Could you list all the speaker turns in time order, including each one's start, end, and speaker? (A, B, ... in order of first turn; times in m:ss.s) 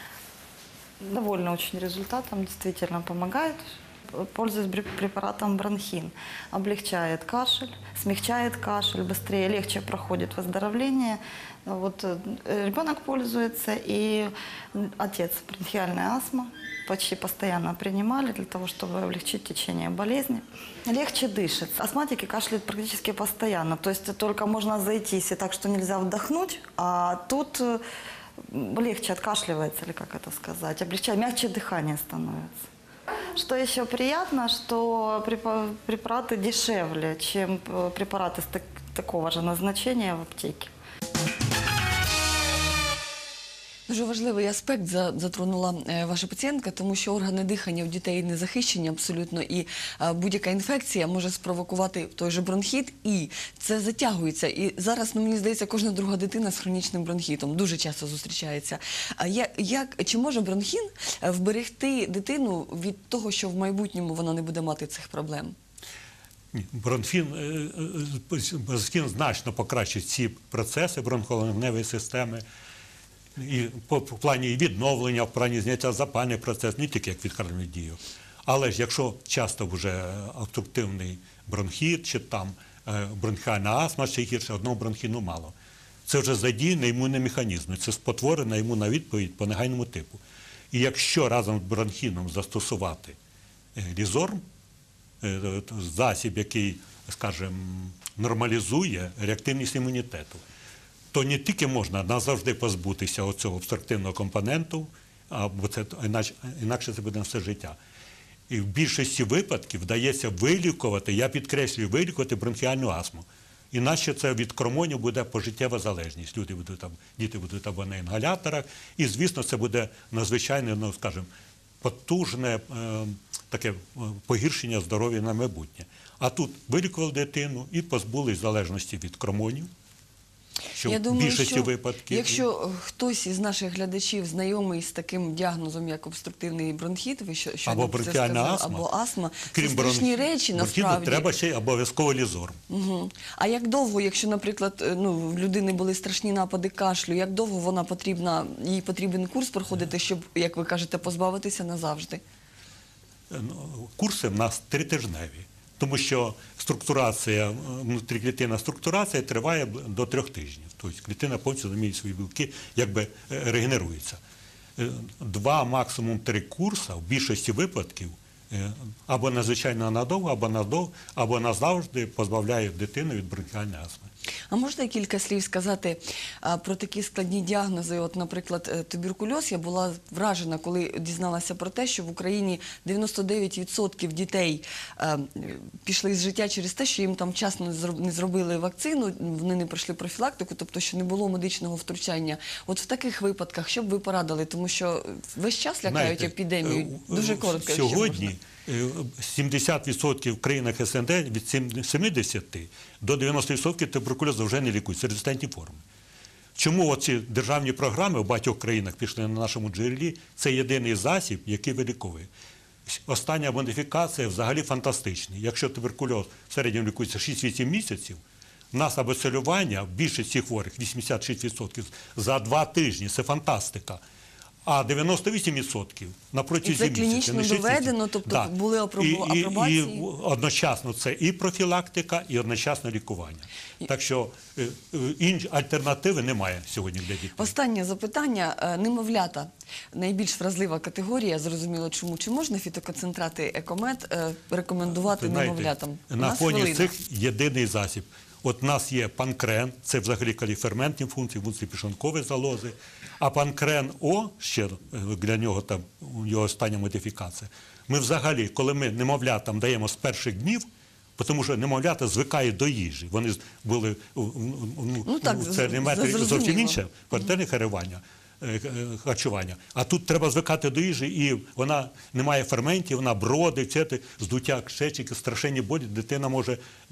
0:01.0-0:03.6 A
0:04.1-0:27.8 A
0:28.4-0:32.6 A
0:33.3-0:40.7 A
0:43.9-1:05.5 B
1:06.5-1:12.4 C
1:13.4-1:25.5 C
1:26.1-1:33.2 C
1:33.8-1:34.4 C
1:35.2-1:40.4 C
1:41.1-1:47.8 C
1:48.5-2:01.3 C
2:01.8-2:09.7 C
2:10.7-2:12.4 C
2:10.8-2:21.3 B
2:17.6-2:18.9 C
2:19.5-2:22.6 C
2:22.7-2:32.2 B
2:33.3-2:44.2 C
2:44.8-2:54.1 C
2:54.5-3:18.3 B
3:15.8-3:25.8 C
3:26.6-3:32.3 C
3:32.9-3:38.2 C
3:38.7-3:44.0 C
3:44.6-3:57.5 C
3:46.6-3:50.0 B
3:57.4-4:06.9 B
4:05.0-4:20.6 C
4:21.2-4:36.6 C
4:25.0-4:26.8 B